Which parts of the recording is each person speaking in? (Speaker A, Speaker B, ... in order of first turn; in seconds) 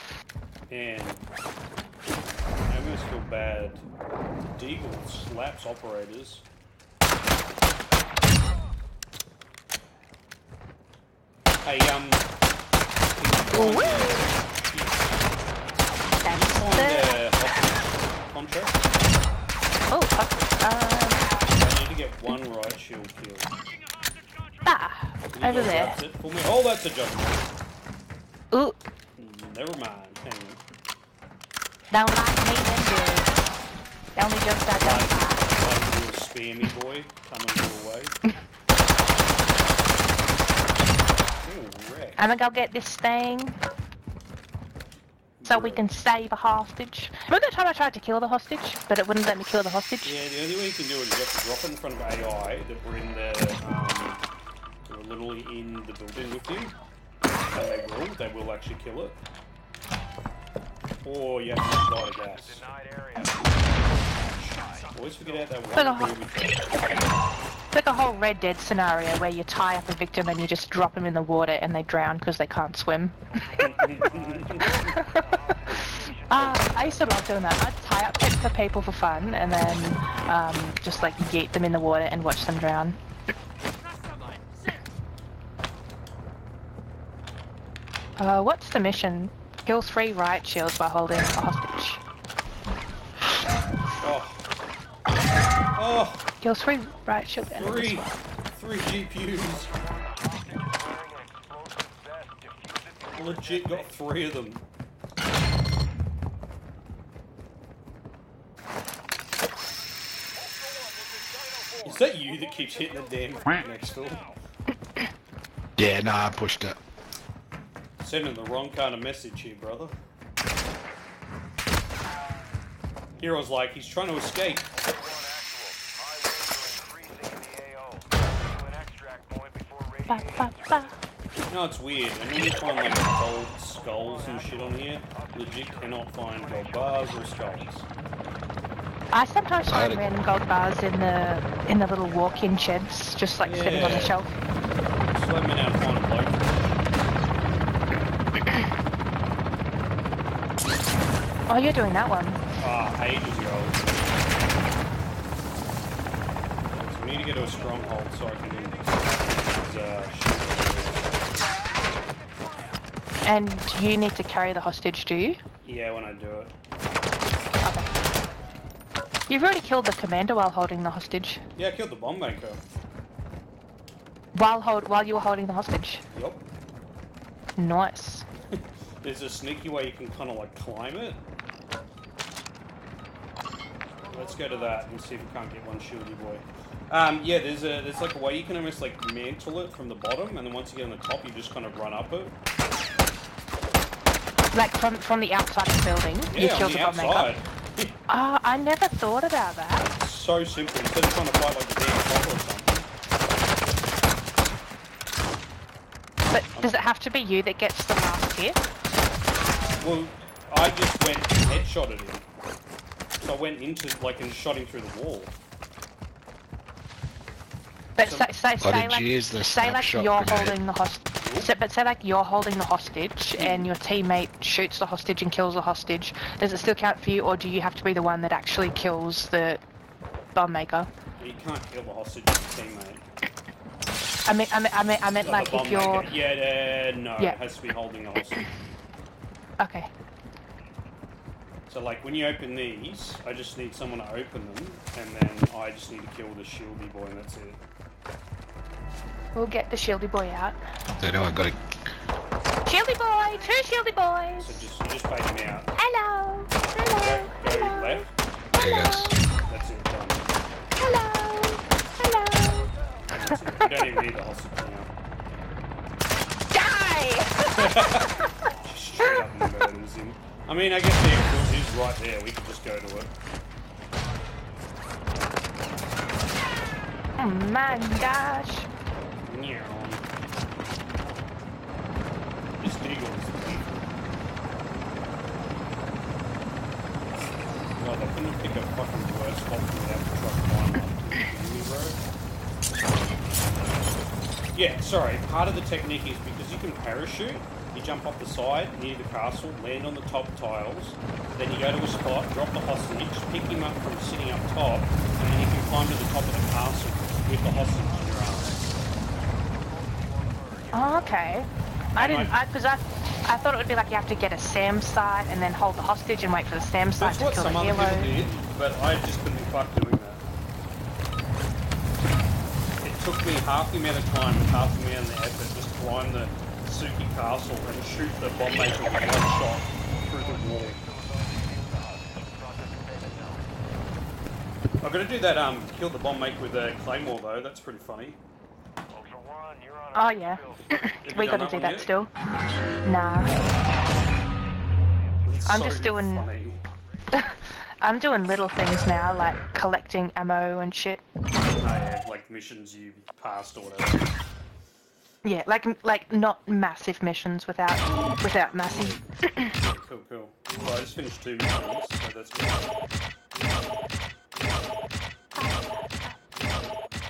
Speaker A: 0.7-1.2, 2.7-3.9, 4.5-6.4, 11.6-12.3, 13.2-15.2, 16.2-18.8, 21.6-23.6, 25.3-27.4, 29.2-30.6, 34.8-38.2, 41.4-42.2, 45.4-45.9, 50.0-54.2, 54.9-56.8, 57.5-59.2, 61.0-62.6, 64.2-66.7, 73.6-74.9, 76.4-76.8, 94.0-94.4, 95.8-96.3, 97.5-99.7, 103.2-104.6, 111.8-114.3, 118.0-119.9, 123.2-124.7, 131.5-137.9, 143.4-144.2, 145.1-146.7, 152.6-154.1, 156.7-161.6, 165.6-166.5, 171.6-172.6, 176.1-176.4, 178.5-181.2, 184.1-192.3, 196.3-197.9, 199.9-202.9, 206.6-206.8, 209.8-212.2, 213.2-215.3, 218.0-218.3, 221.2-221.5, 223.3-223.7, 231.2-233.1, 235.2-238.5, 241.7-247.6, 254.4-255.7, 256.9-258.1, 259.4-260.2, 263.1-264.9, 267.5-273.1, 279.2-280.1, 282.6-283.9, 287.8-292.0, 294.5-308.6, 312.0-312.3, 317.0-320.2, 322.8-330.8, 334.8-338.2, 341.0-341.9, 345.2-346.6, 351.5-354.1, 359.5-362.7
Speaker B: 13.5-14.2, 16.2-17.1, 19.9-21.3, 24.6-26.0, 28.5-28.8, 31.9-33.3, 34.1-35.4, 42.2-43.6, 45.5-50.2, 65.7-66.1, 67.7-73.7, 74.6-83.0, 88.2-92.0, 96.4-98.2, 130.1-130.9, 139.1-144.3, 151.5-152.4, 163.2-165.4, 167.6-167.9, 169.3-171.4, 174.3-176.0, 177.6-178.2, 194.5-197.4, 198.1-199.8, 206.3-208.6, 218.0-229.6, 230.3-230.9, 234.3-236.1, 239.6-239.9, 249.3-250.6, 252.7-254.7, 255.8-257.5, 258.6-259.1, 260.8-262.7, 266.5-268.3, 269.0-269.3, 277.2-278.7, 310.7-318.2, 339.9-342.1, 342.8-343.4, 345.4-346.3, 347.1-351.0, 355.2-359.5, 365.4-366.2
Speaker C: 62.4-64.2, 73.4-76.4, 99.8-103.6, 124.8-130.9, 134.2-135.8, 136.6-137.4, 309.8-310.7, 330.3-333.4, 338.9-340.8
Speaker D: 115.8-116.8, 139.7-140.0, 218.6-220.6, 251.0-251.6, 258.6-259.1